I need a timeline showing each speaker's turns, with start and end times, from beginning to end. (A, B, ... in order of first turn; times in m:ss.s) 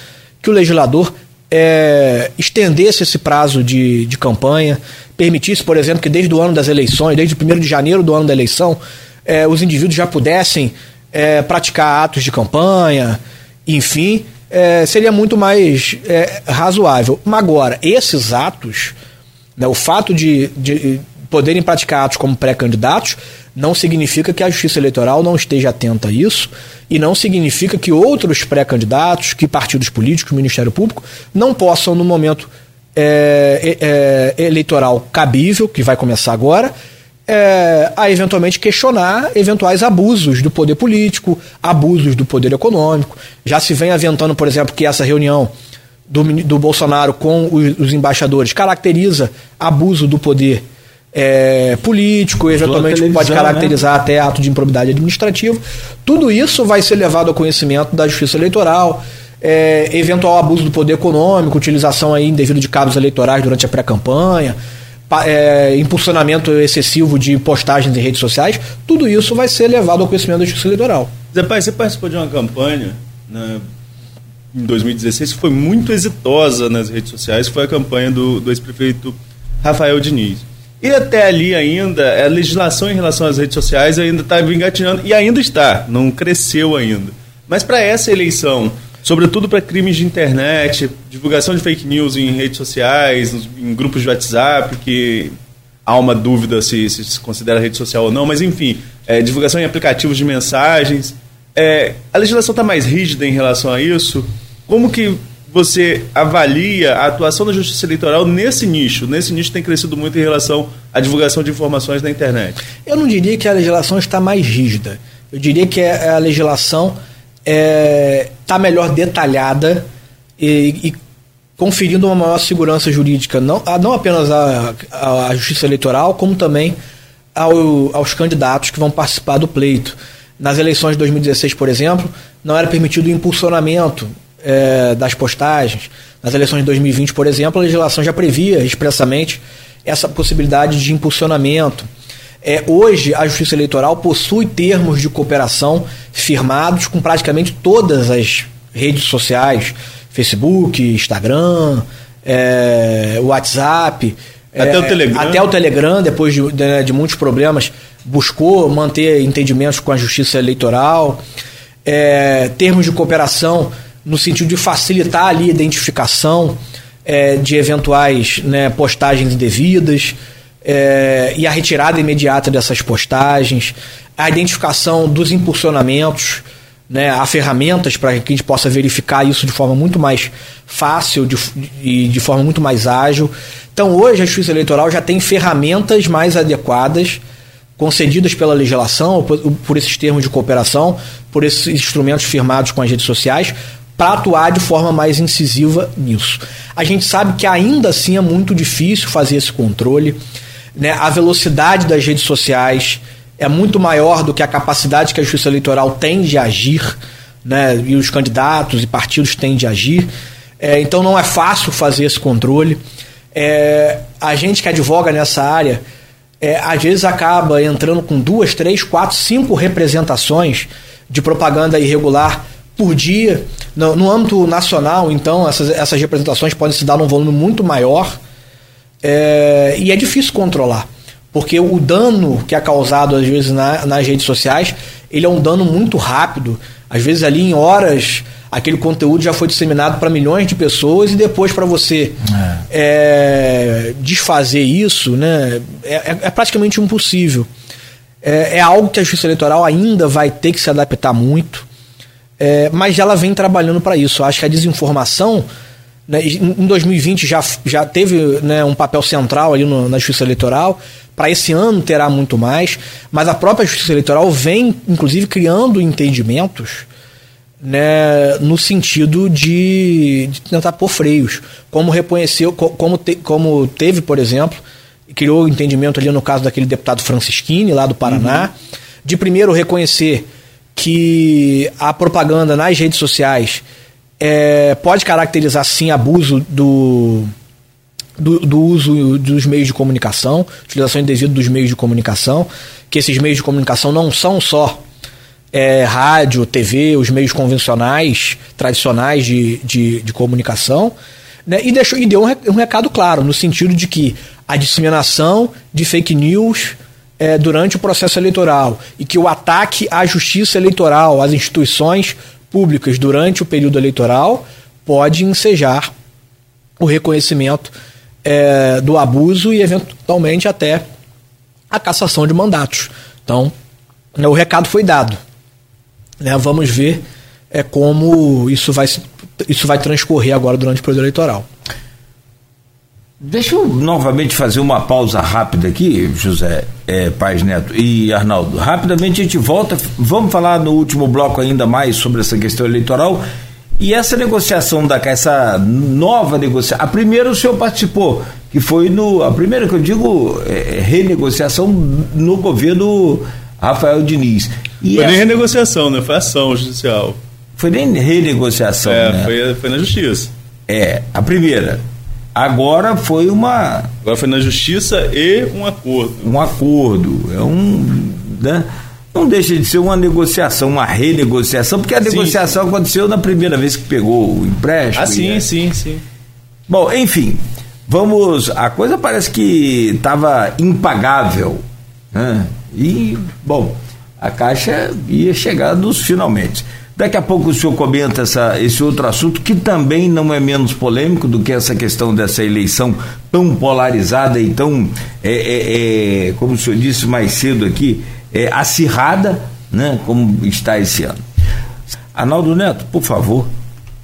0:00.4-0:18.9 A
0:19.6-0:36.7 A
0:37.3-0:45.5 A
0:46.1-1:04.6 A
0:52.5-0:53.8 B
1:05.1-1:11.1 A
1:11.3-1:13.6 C
1:14.5-1:35.3 C
1:35.8-1:52.6 C
1:52.8-1:59.8 A
2:00.4-2:01.0 A
2:01.6-2:06.8 A
2:07.3-2:21.9 A
2:22.4-2:41.2 A
2:34.6-2:35.4 C
2:41.8-3:07.2 A
3:07.8-3:20.2 A
3:20.8-3:30.1 A
3:30.6-3:32.8 A
3:33.3-3:35.8 A
3:36.4-3:48.2 A
3:49.0-4:07.5 A
4:08.2-4:11.6 A
4:12.4-4:15.4 A
4:16.1-4:26.8 A
4:27.6-4:38.5 A
4:39.0-4:43.6 A
4:44.2-4:47.3 A
4:48.2-4:54.8 A
4:55.5-5:00.9 A
5:01.4-5:15.9 A
5:16.8-5:17.7 A
5:18.2-5:20.8 A
5:21.7-5:23.5 A
5:24.1-5:25.2 A
5:26.2-5:31.4 A
5:33.2-5:43.2 B
5:43.8-5:55.2 B
5:55.0-5:57.2 C
5:57.6-5:59.3 B
5:58.8-6:00.3 C
6:00.7-6:01.8 B
6:02.3-6:03.9 B
6:04.0-6:06.3 C
6:06.2-6:15.4 B
6:12.0-6:12.4 C
6:15.0-6:16.0 C
6:16.7-6:41.2 B
6:42.1-6:43.5 B